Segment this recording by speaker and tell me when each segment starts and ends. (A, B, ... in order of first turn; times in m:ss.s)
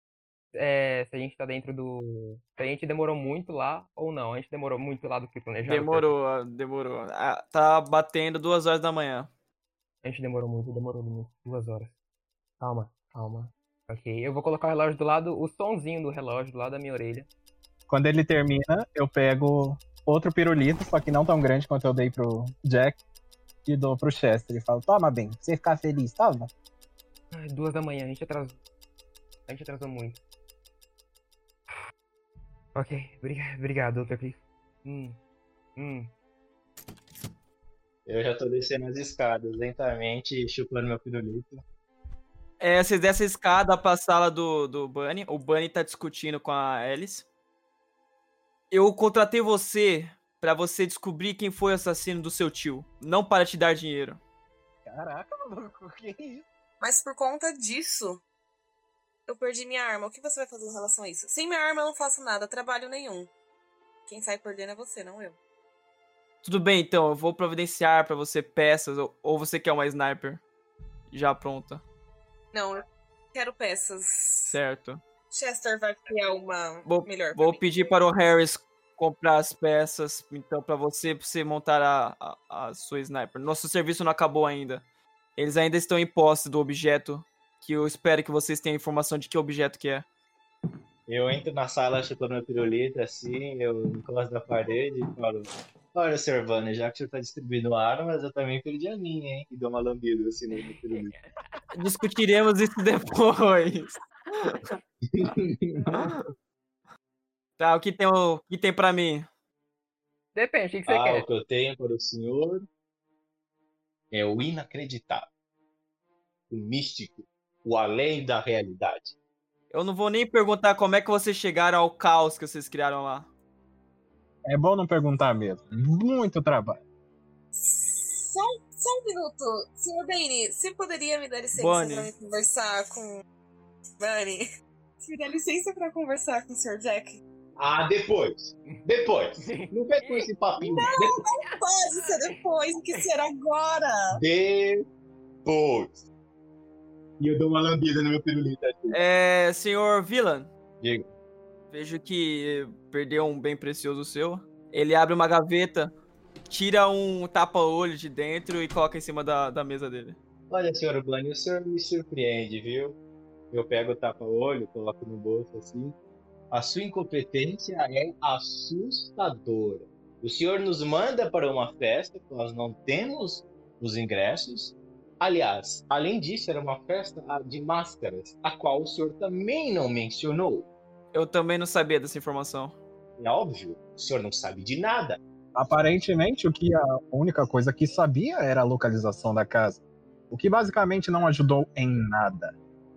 0:00.5-0:06.1 A
0:05.6-0:09.3 B
0:10.0-0:11.9 A
0:12.6-0:17.3 A
0:17.9-0:23.0 C
0:23.6-0:26.5 C
0:27.3-0:28.6 A
0:29.5-0:30.2 A
0:32.7-0:35.2 A
0:35.8-0:36.1 A
0:38.0-0:41.6 D
0:42.6-0:47.2 B
0:48.7-0:54.2 B
0:54.8-0:56.4 C
0:56.8-0:58.2 E
0:59.3-1:03.3 E
1:04.1-1:05.4 E
1:06.4-1:10.4 B
1:11.1-1:11.8 B
1:12.5-1:12.8 E
1:13.3-1:14.6 E
1:14.5-1:15.0 B
1:15.3-1:17.9 E
1:16.8-1:24.8 B
1:25.4-1:30.0 B
1:31.1-1:41.1 D
1:40.5-1:41.3 A
1:41.7-1:44.6 B
1:45.1-1:46.1 D
1:47.6-1:49.2 B
1:50.3-1:51.2 A
1:50.9-1:52.6 D
1:54.1-1:55.3 D
1:56.5-1:59.1 D
1:59.7-2:03.3 B
2:04.4-2:06.8 C
2:07.5-2:13.2 E
2:11.5-2:12.1 B
2:14.0-2:14.4 E
2:15.0-2:17.2 E
2:17.6-2:21.1 D
2:19.4-2:22.4 A
2:20.6-2:24.2 E
2:24.1-2:24.8 D
2:25.4-2:26.0 D
2:27.2-2:29.0 D
2:28.9-2:30.5 B
2:31.7-2:35.9 B
2:36.5-2:40.2 B
2:40.5-2:43.0 D
2:43.5-2:45.9 D
2:46.5-3:00.7 D
3:01.1-3:02.7 B
3:03.2-3:05.2 D
3:05.6-3:12.5 C